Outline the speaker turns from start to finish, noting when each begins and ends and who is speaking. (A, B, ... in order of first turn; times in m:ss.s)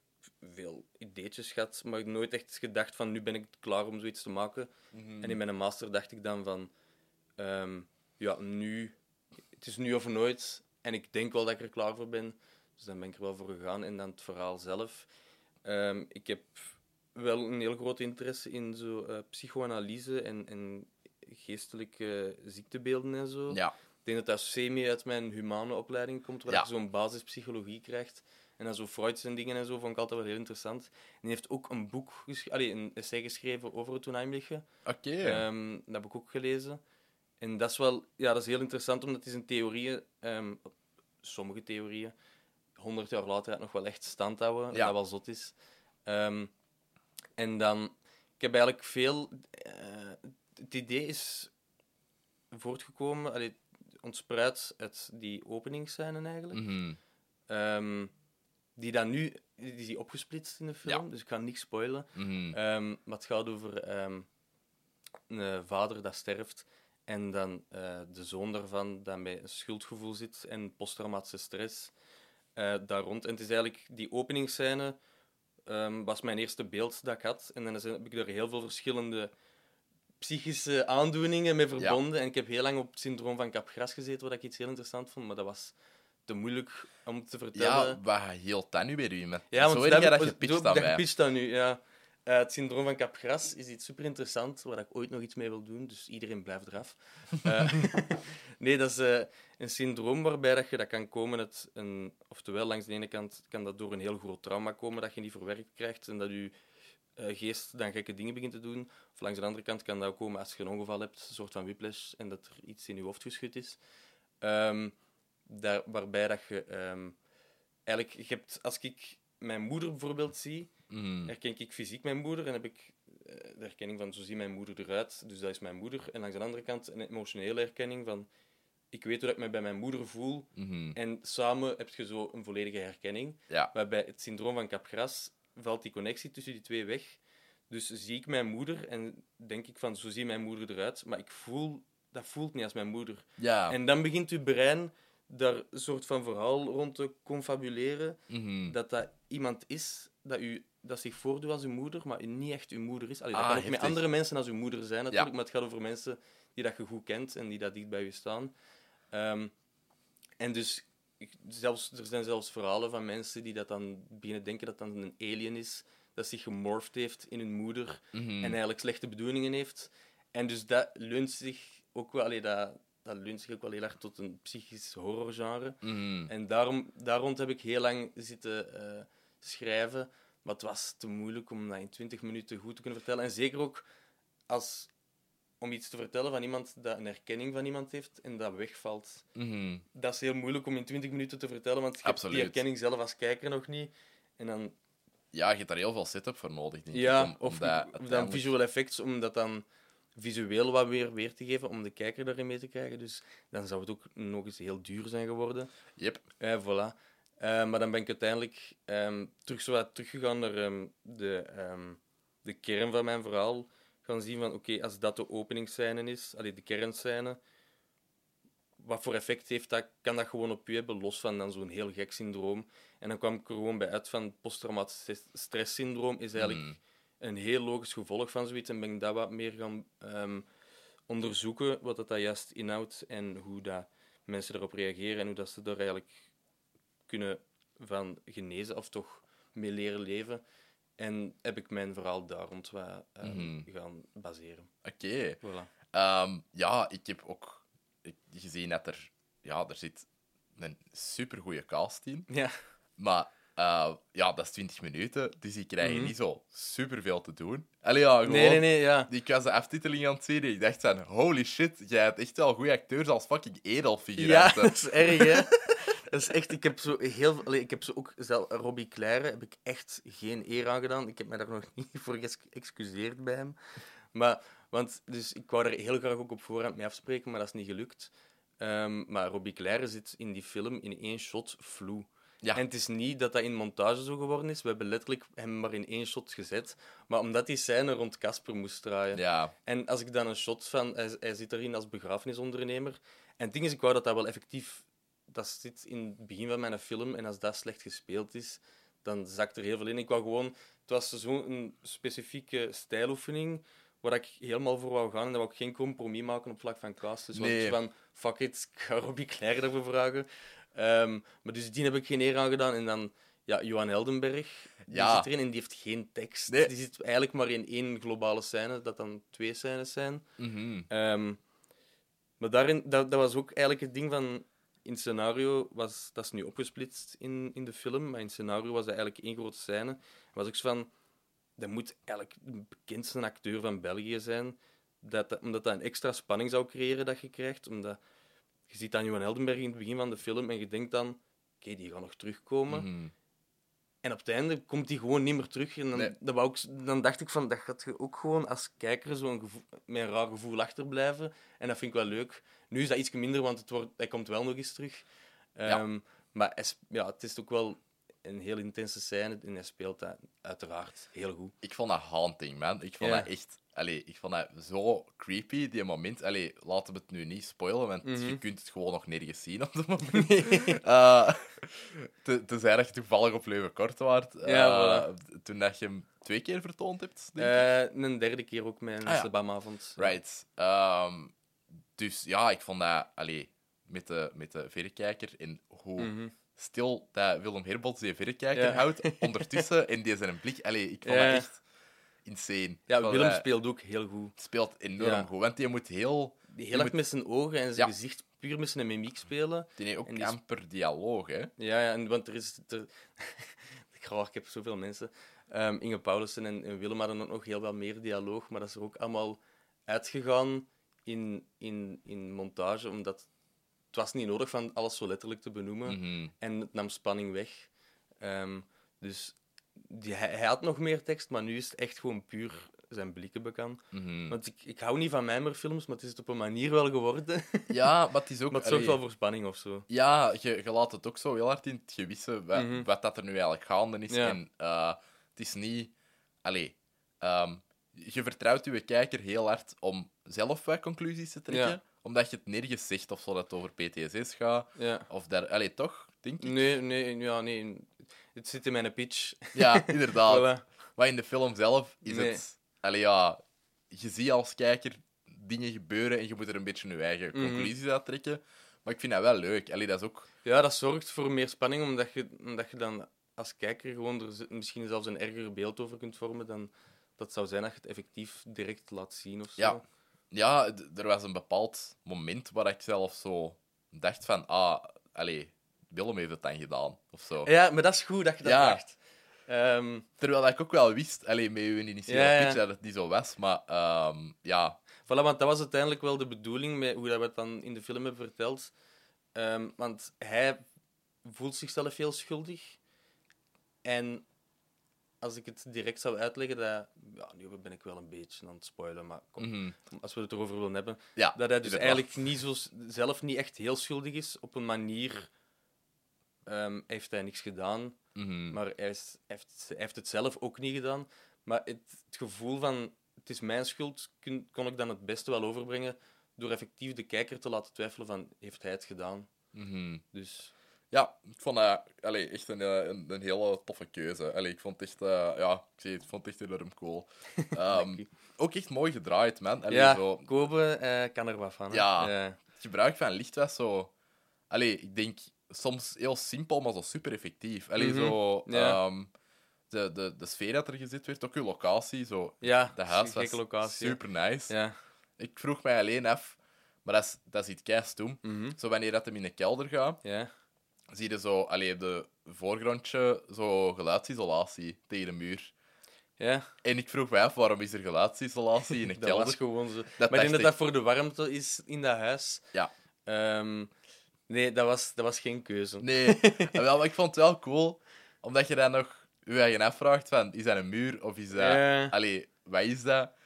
0:00.4-0:06.7 A
0:04.9-0:05.4 B
0:07.4-0:09.0 A
0:09.6-0:15.1 A
0:15.6-0:34.6 A
0:34.8-0:35.4 B
0:35.2-0:36.8 A
0:37.4-0:40.7 A
0:41.2-0:42.1 A
0:42.8-0:45.5 A
0:46.0-0:46.5 A
0:47.4-0:51.5 A
0:52.5-0:56.6 A
0:56.5-0:57.0 B
0:57.5-0:58.1 A
0:58.8-1:04.3 A
1:02.2-1:02.6 B
1:05.3-1:11.9 A
1:12.6-1:15.0 A
1:15.7-1:19.3 A
1:20.2-1:25.8 A
1:26.3-1:28.0 A
1:27.5-1:31.0 B
1:29.5-1:46.5 A
1:47.2-1:53.8 A
1:54.4-1:55.0 A
1:55.5-1:57.2 A
1:57.9-2:00.7 A
2:00.9-2:01.3 B
2:01.2-2:08.3 A
2:08.9-2:38.5 A
2:10.6-2:11.0 B
2:23.4-2:23.8 B
2:28.3-2:28.7 B
2:33.3-2:34.0 B
2:39.1-2:39.5 A
2:40.4-3:03.8 A
2:48.1-2:48.5 B
2:55.8-2:56.3 B
3:04.5-3:04.9 A
3:05.6-3:09.2 A
3:09.3-3:09.8 B
3:09.9-3:14.7 A
3:12.0-3:12.6 B
3:15.3-3:18.5 B
3:16.9-3:19.6 A
3:20.2-3:25.7 A
3:26.0-3:26.2 B
3:26.4-3:37.4 A
3:38.8-3:46.7 A
3:46.4-3:46.8 B
3:47.2-3:50.5 A
3:51.1-3:56.1 A
3:57.1-4:00.4 A
4:01.0-4:04.7 A
4:03.2-4:03.7 B
4:04.8-4:05.4 B
4:05.4-4:05.7 A
4:05.9-4:12.3 B
4:12.3-4:12.5 A
4:13.0-4:25.5 B
4:15.8-4:16.1 A
4:18.2-4:19.1 A
4:24.2-4:33.6 A
4:34.1-5:20.2 A
4:49.1-4:49.5 B
5:07.3-5:07.8 B
5:14.9-5:15.3 B
5:20.4-5:20.9 B
5:20.9-5:21.4 A
5:22.4-5:30.9 A
5:31.6-5:38.0 A
5:38.7-5:42.9 A
5:42.7-5:43.1 B
5:44.0-5:55.0 A
5:55.6-6:01.5 A
6:01.6-6:17.6 B
6:03.0-6:03.3 A
6:08.0-6:08.4 A
6:10.0-6:10.8 A
6:14.4-6:15.1 A
6:17.4-6:20.1 A
6:20.0-6:21.3 B
6:22.0-6:31.6 B
6:26.0-6:26.3 A
6:28.5-6:29.6 A
6:31.0-6:31.5 A
6:32.2-6:33.4 B
6:32.9-6:34.3 A
6:34.4-6:37.0 B
6:35.0-6:35.3 A
6:36.5-6:40.4 A
6:39.8-6:41.5 B
6:41.6-6:53.3 A
6:53.9-6:57.7 A
6:55.8-6:56.3 B
6:58.2-7:07.8 A
7:03.9-7:04.3 B
7:07.7-7:09.0 B
7:08.5-7:09.9 A
7:09.9-7:15.9 B
7:12.5-7:12.9 A
7:14.1-7:14.4 A
7:16.4-7:26.6 B
7:21.5-7:21.8 A
7:24.8-7:25.1 A
7:26.4-7:30.6 A
7:29.5-7:40.3 B
7:32.0-7:32.4 A
7:37.3-7:37.7 A
7:40.4-7:49.8 A
7:50.3-7:57.5 B
7:57.4-8:00.0 A
7:58.4-7:58.8 B
8:00.2-8:04.8 B
8:02.1-8:02.6 A
8:05.0-8:08.7 A
8:09.3-8:10.6 A
8:11.2-8:12.8 A
8:13.8-8:14.2 A
8:15.2-8:25.3 A
8:19.4-8:19.8 B
8:21.2-8:22.1 B
8:26.5-8:28.0 A
8:28.2-8:28.6 B
8:28.5-8:39.3 A
8:39.5-8:40.0 B
8:40.1-8:40.5 A
8:40.9-8:50.3 B
8:47.4-8:48.1 A
8:49.7-8:52.4 A
8:51.7-8:53.9 B
8:54.5-8:59.1 B
8:57.8-8:58.8 A
8:59.7-9:04.5 B
9:02.4-9:04.8 A
9:05.2-9:10.0 B
9:08.2-9:08.6 A
9:10.0-9:10.3 A
9:10.9-9:15.5 B
9:16.2-9:16.5 A
9:16.6-9:19.4 B
9:19.0-9:22.5 A
9:20.0-9:20.5 B
9:23.0-9:23.7 A
9:24.3-9:26.6 A
9:25.8-9:33.1 B
9:31.3-9:32.0 A